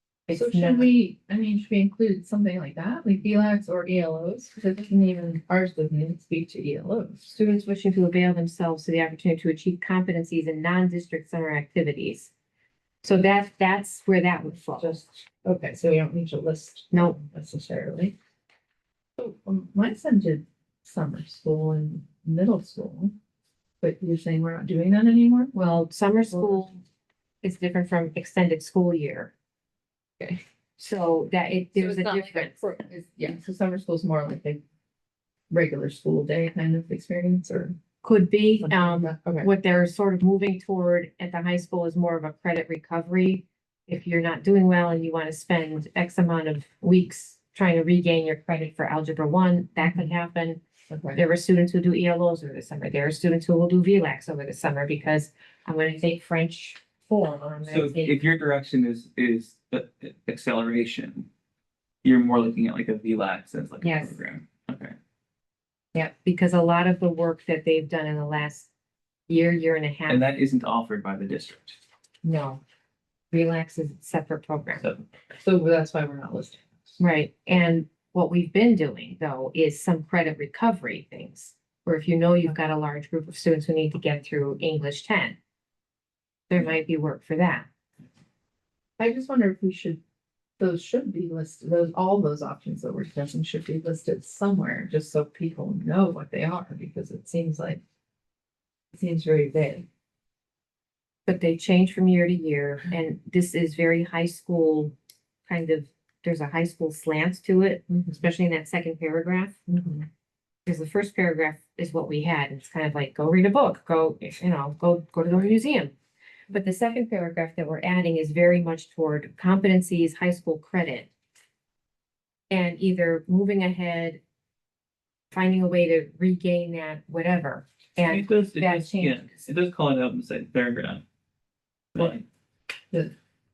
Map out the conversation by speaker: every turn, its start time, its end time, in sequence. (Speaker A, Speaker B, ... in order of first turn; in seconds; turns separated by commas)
Speaker A: 0.3-0.9, Speaker B: 0.3-7.3, Speaker A: 7.3-12.3, Speaker A: 13.0-15.0, Speaker B: 14.8-18.2, Speaker A: 16.9-17.2, Speaker B: 19.2-23.2, Speaker B: 23.8-25.5, Speaker A: 25.5-26.8, Speaker A: 27.4-29.3, Speaker A: 30.8-32.5, Speaker B: 31.8-34.6, Speaker B: 35.5-37.8, Speaker A: 38.0-50.6, Speaker B: 38.6-39.5, Speaker B: 49.8-50.1, Speaker B: 50.9-51.2, Speaker A: 51.1-58.2, Speaker C: 57.7-61.3, Speaker C: 62.0-65.0, Speaker A: 63.8-64.2, Speaker A: 65.9-68.7, Speaker A: 69.3-70.3, Speaker C: 70.1-71.8, Speaker A: 72.2-72.6, Speaker A: 73.3-74.9, Speaker B: 75.4-76.7, Speaker A: 77.0-85.4, Speaker A: 86.5-87.7, Speaker B: 89.0-90.0, Speaker B: 90.6-97.8, Speaker B: 98.9-99.9, Speaker A: 101.3-105.0, Speaker A: 105.5-109.6, Speaker B: 107.9-108.2, Speaker B: 109.7-110.1, Speaker A: 110.7-115.9, Speaker A: 116.5-121.1, Speaker A: 122.5-124.2, Speaker A: 125.3-129.3, Speaker C: 128.1-131.0, Speaker C: 131.9-132.2